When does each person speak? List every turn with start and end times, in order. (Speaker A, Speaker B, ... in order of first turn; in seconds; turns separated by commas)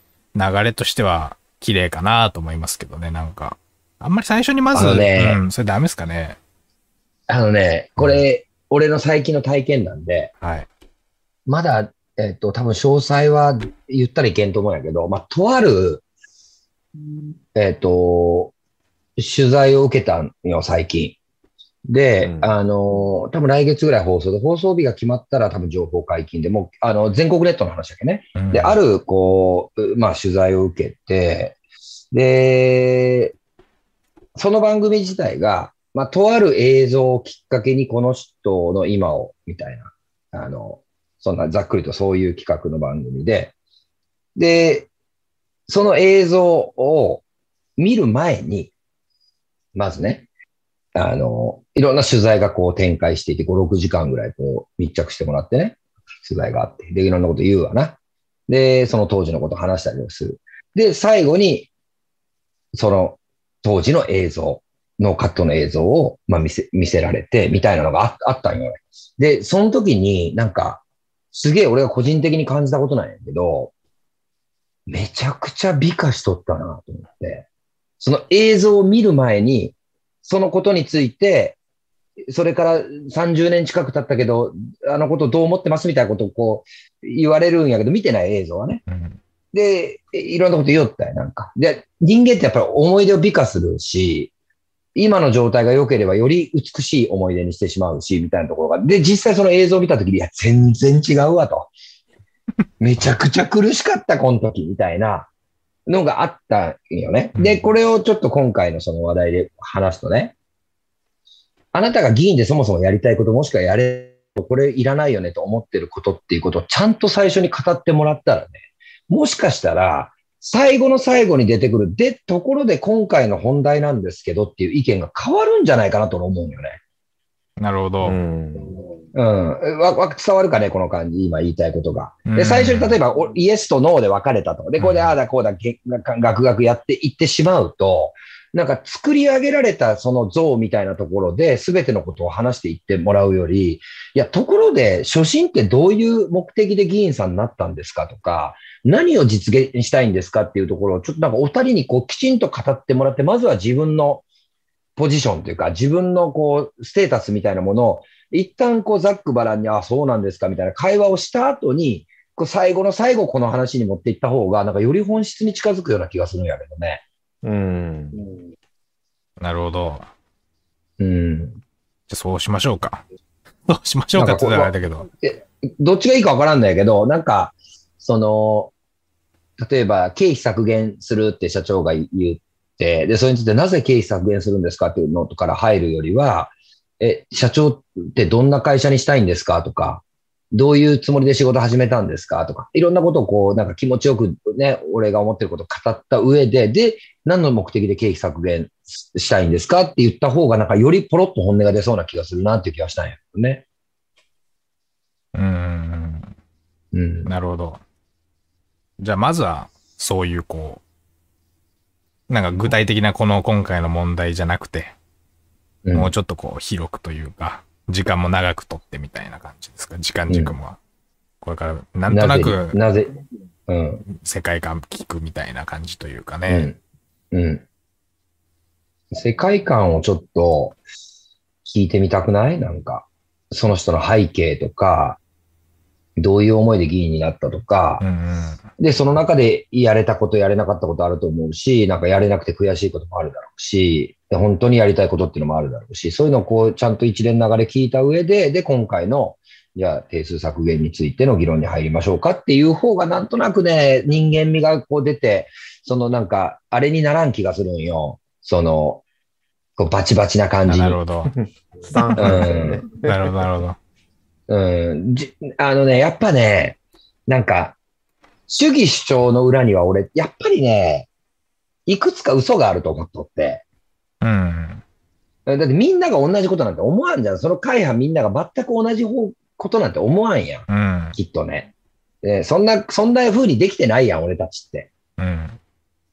Speaker A: 0.3-6.4, Speaker B: 4.7-5.4, Speaker B: 7.3-10.3, Speaker A: 10.4-10.7, Speaker B: 11.5-16.0, Speaker B: 17.5-18.5, Speaker B: 19.2-21.2, Speaker B: 21.9-31.6, Speaker C: 22.2-22.5, Speaker A: 28.4-28.8, Speaker B: 32.1-33.4, Speaker B: 34.4-43.5, Speaker B: 44.4-44.9, Speaker B: 45.7-47.2, Speaker B: 47.8-48.7, Speaker B: 49.8-50.3, Speaker B: 51.0-61.7, Speaker B: 62.7-73.7, Speaker B: 74.9-77.5, Speaker B: 78.0-81.6, Speaker B: 82.3-88.8, Speaker A: 88.9-89.2, Speaker B: 89.5-94.3, Speaker B: 95.0-101.7, Speaker B: 102.8-105.3, Speaker B: 105.9-110.3, Speaker A: 107.4-107.7, Speaker B: 111.7-126.8, Speaker A: 127.6-128.2, Speaker C: 128.0-128.7, Speaker B: 129.1-154.2, Speaker A: 132.3-133.0, Speaker A: 134.8-135.1, Speaker B: 155.0-167.0, Speaker C: 167.4-168.2, Speaker A: 169.4-170.1, Speaker B: 171.0-171.6, Speaker A: 172.1-173.0, Speaker A: 173.7-175.1, Speaker B: 174.2-174.7, Speaker B: 175.2-178.7, Speaker B: 179.6-203.6, Speaker A: 205.3-206.3, Speaker B: 206.9-207.3, Speaker A: 207.3-207.8, Speaker A: 209.0-210.8, Speaker A: 212.3-214.9, Speaker B: 215.8-216.1, Speaker A: 215.9-220.8, Speaker B: 220.3-220.6, Speaker A: 221.4-222.8, Speaker B: 222.1-223.1, Speaker B: 223.7-224.0, Speaker A: 224.1-226.7, Speaker B: 226.5-226.8, Speaker B: 227.3-227.6, Speaker B: 229.1-230.8, Speaker B: 231.7-235.2, Speaker B: 236.2-238.0, Speaker A: 238.0-238.6, Speaker B: 238.8-259.0, Speaker B: 259.8-261.0, Speaker A: 260.7-261.3, Speaker C: 261.3-263.4, Speaker A: 262.0-263.8, Speaker B: 262.2-262.8, Speaker B: 264.5-267.8, Speaker B: 268.5-271.1, Speaker B: 271.9-273.6, Speaker A: 274.2-274.8, Speaker B: 275.5-281.7, Speaker A: 280.7-281.2, Speaker B: 282.2-284.9, Speaker A: 285.2-285.6